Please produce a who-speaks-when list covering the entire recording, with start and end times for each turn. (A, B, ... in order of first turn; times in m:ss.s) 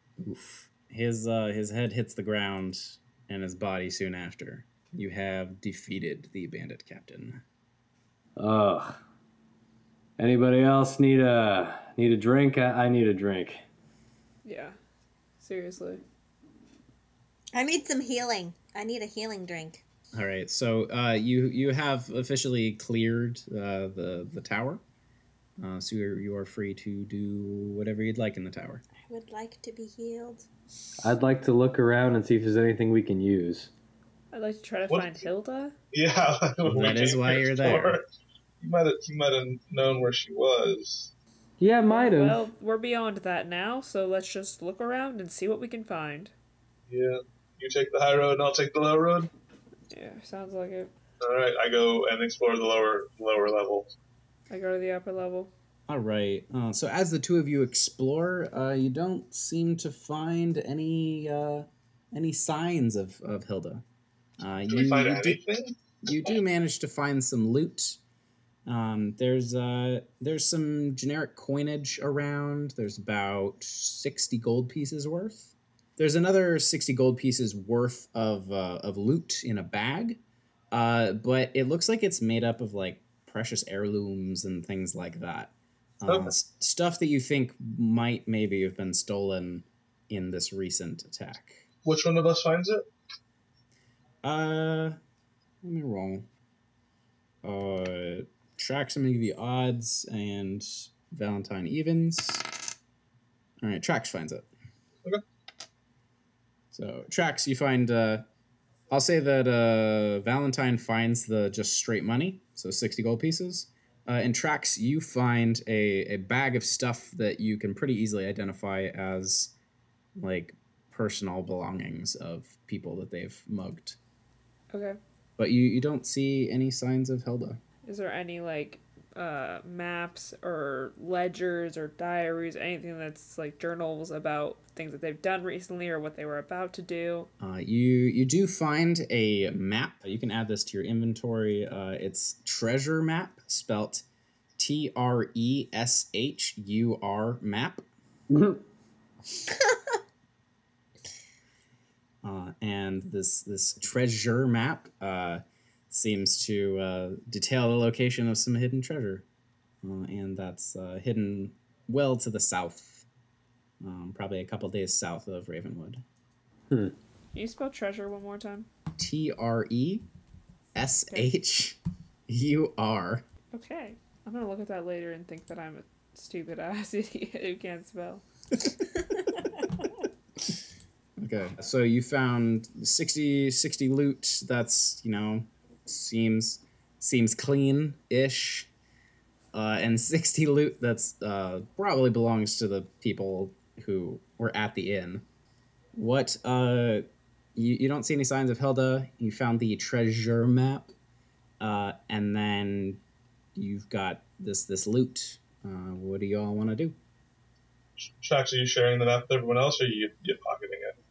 0:00.2-0:07.4 A
0:08.4-0:09.0 B
0:10.2-0:13.6 B
0:14.4-0:14.8 C
0:15.4-0:16.0 C
0:17.5-0:19.8 D
0:20.1-0:24.8 A
0:25.6-0:28.8 A
0:29.0-0:30.5 D
0:31.0-0:33.7 B
0:34.3-0:35.8 C
0:34.9-0:35.2 E
0:35.9-0:38.0 E
0:36.6-0:38.0 A
0:38.6-0:41.1 E
0:41.6-0:42.4 B
0:41.9-0:46.3 C
0:46.9-0:49.3 E
0:49.9-0:50.9 C
0:51.2-0:53.9 E
0:54.5-0:55.5 C
0:55.9-1:03.8 A
1:04.4-1:05.4 A
1:04.7-1:05.7 E
1:06.0-1:08.0 A
1:08.7-1:20.2 A
1:20.7-1:31.6 A
1:26.1-1:26.3 E
1:31.8-1:32.8 E
1:34.2-1:35.0 A
1:35.6-1:36.3 A
1:37.4-1:42.6 A
1:43.6-1:44.5 A
1:46.7-1:48.2 A
1:48.9-1:59.5 A
2:00.2-2:04.0 A
2:04.7-2:05.0 C
2:05.4-2:07.6 A
2:07.8-2:17.3 C
2:17.4-2:24.0 A
2:24.6-2:27.8 A
2:28.3-2:28.6 B
2:32.2-2:39.2 A
2:39.8-2:43.1 A
2:43.8-2:46.0 A
2:46.7-2:47.0 B
2:47.3-2:48.7 C
2:49.0-2:50.1 A
2:50.8-2:53.2 A
2:53.5-2:58.2 C
3:01.2-3:08.7 A
3:09.5-3:15.2 A
3:15.9-3:17.0 A
3:17.6-3:20.9 A
3:21.6-3:23.0 A
3:23.6-3:27.0 A
3:28.2-3:31.0 E